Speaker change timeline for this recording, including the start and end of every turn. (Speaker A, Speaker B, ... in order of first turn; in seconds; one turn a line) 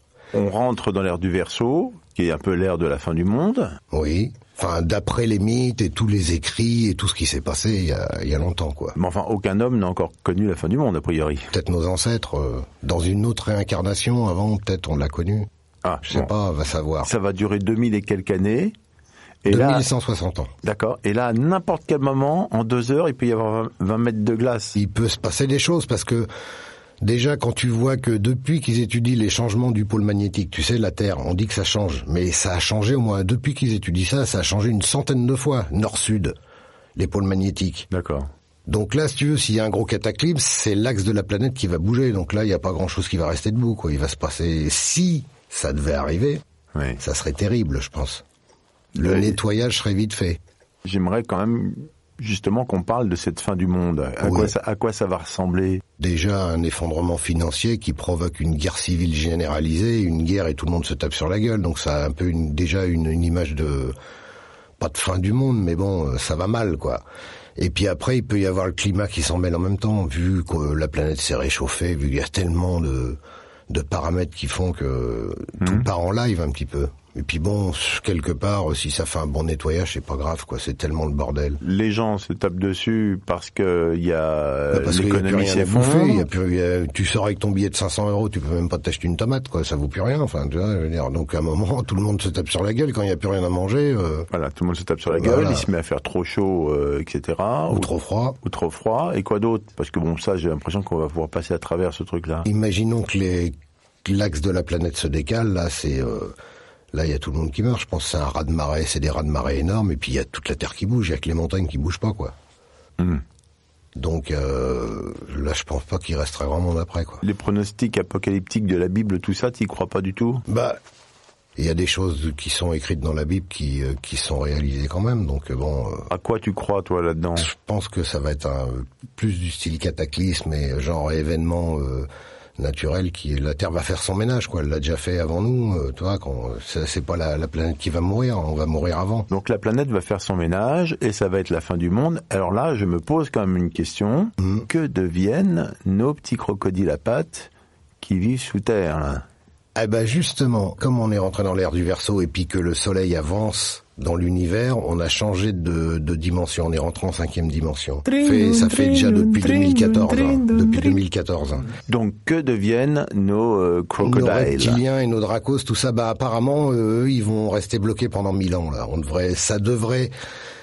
Speaker A: 0.3-3.8
Speaker B: 3.9-9.0
Speaker A: 9.0-11.5
Speaker B: 11.5-15.5
Speaker A: 15.8-16.3
Speaker B: 16.1-17.1
Speaker A: 17.0-18.7
Speaker A: 19.4-19.9
Speaker B: 19.5-20.5
Speaker A: 20.6-24.8
Speaker B: 24.8-26.3
Speaker B: 27.0-36.4
Speaker B: 37.0-37.9
Speaker A: 37.9-38.3
Speaker B: 38.7-46.4
Speaker A: 46.7-47.0
Speaker B: 47.0-48.2
Speaker B: 49.0-50.4
Speaker A: 49.0-49.4
Speaker A: 50.8-55.8
Speaker B: 54.2-54.5
Speaker B: 56.0-64.0
Speaker B: 64.8-67.0
Speaker B: 67.6-81.6
Speaker A: 75.6-75.9
Speaker A: 81.6-86.2
Speaker B: 84.7-94.3
Speaker A: 94.3-97.9
Speaker B: 95.1-95.7
Speaker B: 97.7-98.4
Speaker A: 98.4-102.5
Speaker B: 102.5-103.5
Speaker B: 104.0-106.3
Speaker B: 106.9-112.3
Speaker B: 114.0-117.2
Speaker A: 117.2-120.5
Speaker B: 120.5-120.8
Speaker B: 121.6-126.1
Speaker A: 126.1-127.5
Speaker B: 127.4-139.3
Speaker A: 139.3-147.5
Speaker B: 144.4-144.7
Speaker A: 148.0-149.2
Speaker B: 149.8-161.7
Speaker A: 161.9-164.8
Speaker B: 164.0-170.1